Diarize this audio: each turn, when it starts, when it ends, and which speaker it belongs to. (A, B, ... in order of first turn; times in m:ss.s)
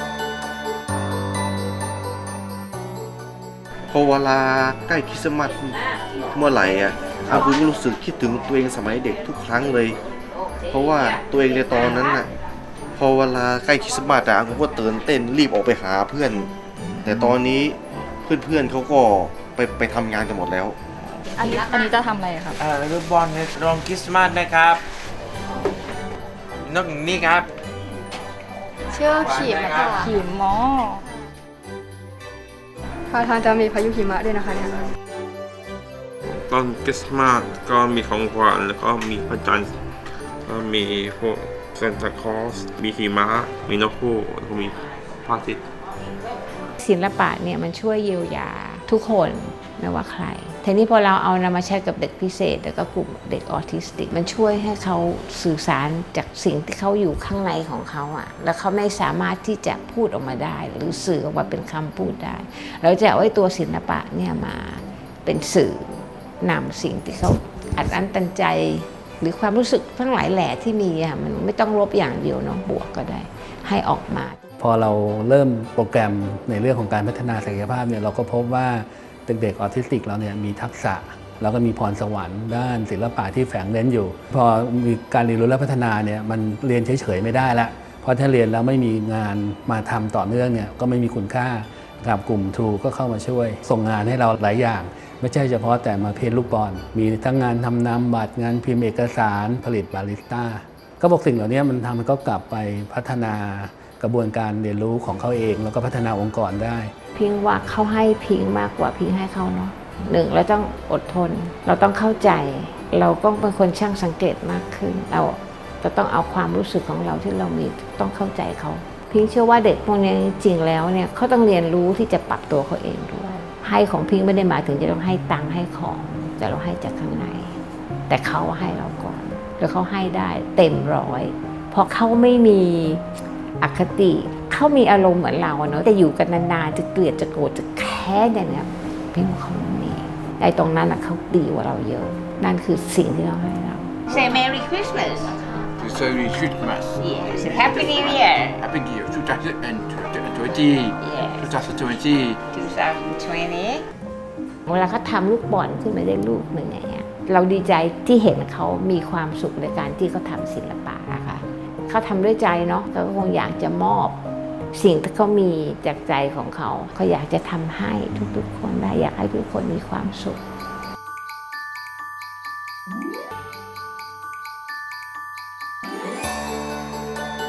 0:03.9-0:05.8 A
0:06.3-0:10.0 A
0:10.7-0:12.3 A
0:13.0-0:16.5 A
0:17.0-0:20.8 A
0:21.4-0:22.6 B
0:22.6-0:24.8 C
0:26.6-0:27.5 C
0:28.9-0:30.1 D
0:29.2-0:29.9 C
0:29.4-0:31.0 B
0:33.1-0:34.7 D
0:36.5-0:39.7 E
0:40.4-0:45.6 E
0:46.8-1:14.4 F
1:14.6-1:46.9 G
1:47.2-2:07.6 F
2:08.1-2:13.0 F
2:13.6-2:24.0 F
2:24.1-2:25.7 H
2:25.8-2:32.4 I
2:27.0-2:28.6 H
2:31.0-2:31.5 H
2:32.5-2:33.8 H
2:34.7-2:44.2 F
2:44.7-2:50.4 F